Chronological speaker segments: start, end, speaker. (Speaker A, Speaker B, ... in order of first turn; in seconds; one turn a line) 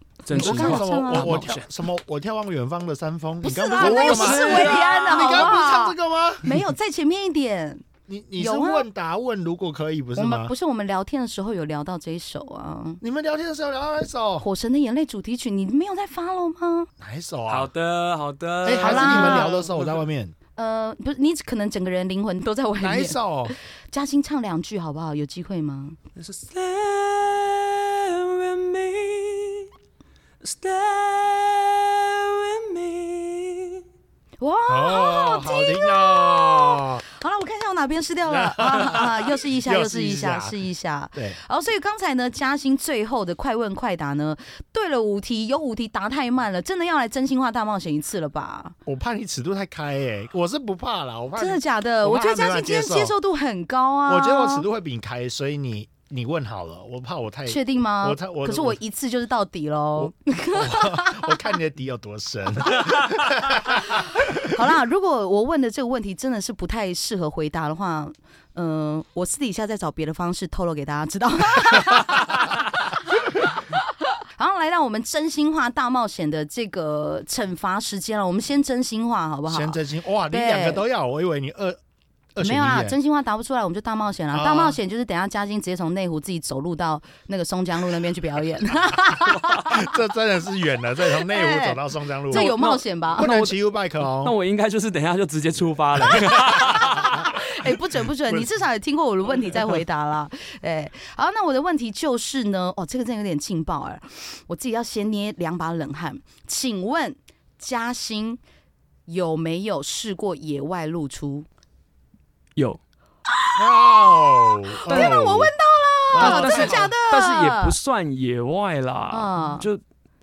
Speaker A: 0.2-1.7
Speaker B: 0.3-1.5
Speaker C: 0.3-6.5
Speaker B: 3.4-7.8
Speaker A: 3.8-5.5
Speaker C: 8.1-10.5
Speaker B: 8.4-8.9
Speaker B: 10.2-13.0
Speaker C: 13.0-14.4
Speaker B: 14.4-16.9
Speaker C: 17.0-17.7
Speaker A: 17.5-20.0
Speaker C: 18.6-20.3
Speaker B: 18.8-19.5
Speaker B: 20.6-26.0
Speaker C: 22.8-23.5
Speaker A: 26.2-29.7
Speaker A: 30.4-33.8
Speaker B: 34.4-48.8
Speaker C: 34.7-37.0
Speaker C: 38.3-40.6
Speaker C: 48.9-53.1
Speaker B: 51.4-54.7
Speaker C: 54.1-58.8
Speaker B: 57.5-61.5
Speaker C: 60.0-64.6
Speaker B: 62.6-72.6
Speaker B: 74.4-80.8
Speaker C: 79.5-81.8
Speaker C: 82.3-83.0
Speaker B: 82.4-89.9
Speaker C: 84.3-84.8
Speaker C: 89.6-92.6
Speaker B: 91.2-93.3
Speaker A: 92.3-97.2
Speaker C: 93.2-94.4
Speaker B: 96.1-108.4
Speaker C: 96.1-97.3
Speaker B: 109.1-111.5
Speaker C: 113.6-115.5
Speaker B: 114.4-117.7
Speaker A: 114.9-115.3
Speaker C: 116.1-116.9
Speaker A: 116.2-119.8
Speaker B: 119.1-119.7